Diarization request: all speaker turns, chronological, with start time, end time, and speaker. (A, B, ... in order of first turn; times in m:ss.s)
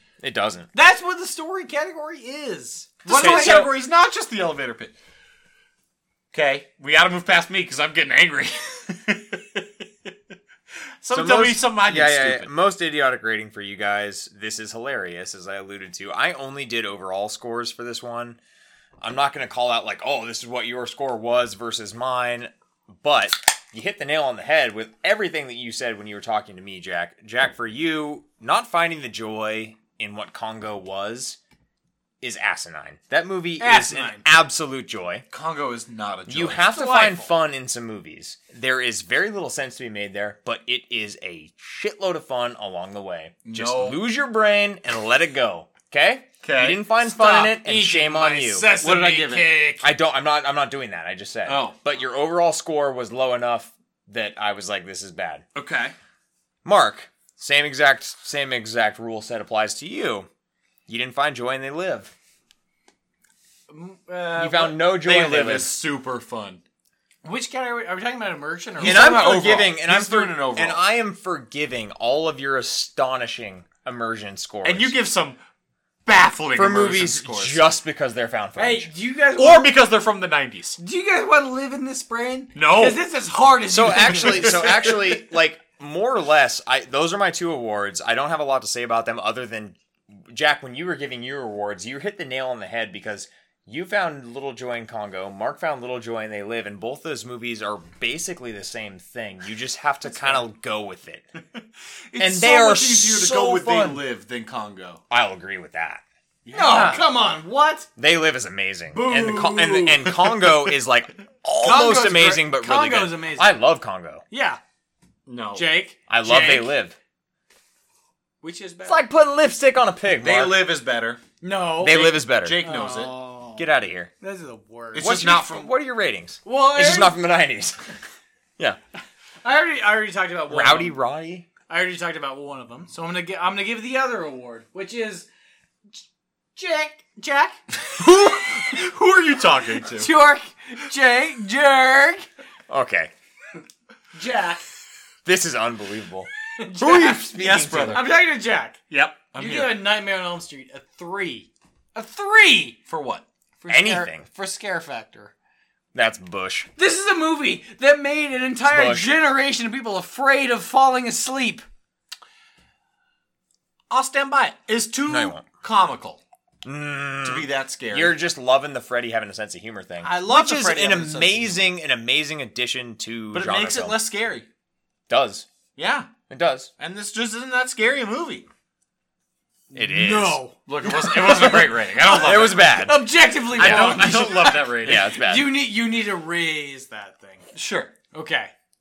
0:00.2-0:00.7 A
0:00.7-0:03.7 B
0:03.0-0:04.9 C
0:03.1-0:03.7 A
0:06.3-0:10.1 C
0:11.0-0:12.5 C
0:11.1-0:18.4 A
0:19.0-0:31.4 A
0:32.2-0:35.2 A
0:33.6-0:34.2 B
0:35.3-0:36.7 C
0:36.3-0:48.7 A
0:36.7-0:37.3 B
0:43.4-0:44.0 C
0:46.4-0:46.8 C
0:47.0-0:49.9 B
0:48.8-0:49.6 C
0:49.8-0:55.4 A
0:51.4-0:51.8 C
0:55.6-0:55.9 C
0:56.6-1:00.3 A
1:00.9-1:02.1 A
1:03.7-1:04.8 B
1:04.4-1:05.7 A
1:04.9-1:06.6 C
1:07.2-1:09.5 B
1:08.8-1:10.8 C
1:08.8-1:15.0 A
1:14.6-1:15.4 C
1:16.0-1:17.6 C
1:16.6-1:18.9 A
1:18.6-1:19.7 B
1:19.3-1:20.8 C
1:20.8-1:24.9 B
1:22.6-1:23.0 C
1:23.7-1:41.2 A
1:24.1-1:25.0 C
1:40.0-1:40.4 B
1:42.1-1:45.0 C
1:42.2-1:44.0 A
1:45.1-1:46.0 A
1:46.4-1:47.0 C
1:46.5-1:47.9 B
1:46.7-1:47.0 A
1:48.0-1:54.2 A
1:48.9-1:50.2 B
1:51.6-1:53.6 B
1:54.3-1:54.6 B
1:55.3-1:55.6 C
1:55.6-1:56.7 B
1:56.1-1:57.0 A
1:58.4-1:59.1 B
1:58.9-2:00.6 A
2:00.2-2:01.2 C
2:01.4-2:03.7 B
2:01.8-2:02.6 A
2:02.4-2:03.1 C
2:03.6-2:04.1 A
2:04.2-2:05.1 B
2:04.9-2:05.7 C
2:05.0-2:07.9 A
2:06.4-2:07.2 B
2:09.4-2:10.9 B
2:10.5-2:11.4 A
2:11.7-2:15.3 B
2:16.6-2:17.8 B
2:18.0-2:20.1 C
2:19.9-2:22.3 B
2:22.7-2:23.1 A
2:24.1-2:24.6 B
2:25.2-2:28.0 A
2:26.6-2:27.2 B
2:26.8-2:28.1 C
2:27.9-2:28.8 B
2:28.9-2:29.8 C
2:29.3-2:32.8 B
2:32.9-2:33.2 C
2:33.6-2:35.3 B
2:33.7-2:34.3 A
2:35.9-2:36.7 A
2:36.8-2:41.6 B
2:38.7-2:39.1 A
2:43.9-2:46.2 C
2:45.1-2:45.4 A
2:46.6-2:54.0 A
2:47.2-2:48.2 C
2:50.0-2:50.6 B
2:50.2-2:51.7 C
2:53.3-2:54.4 C
2:55.1-2:55.5 A
2:55.8-2:56.1 C
2:56.3-2:56.7 A
2:56.8-2:58.4 C
2:59.7-3:07.5 B
2:59.7-3:00.4 A
3:00.6-3:02.6 C
3:02.1-3:03.0 A
3:03.5-3:05.0 C
3:03.6-3:05.5 A
3:07.5-3:07.9 C
3:08.1-3:08.5 B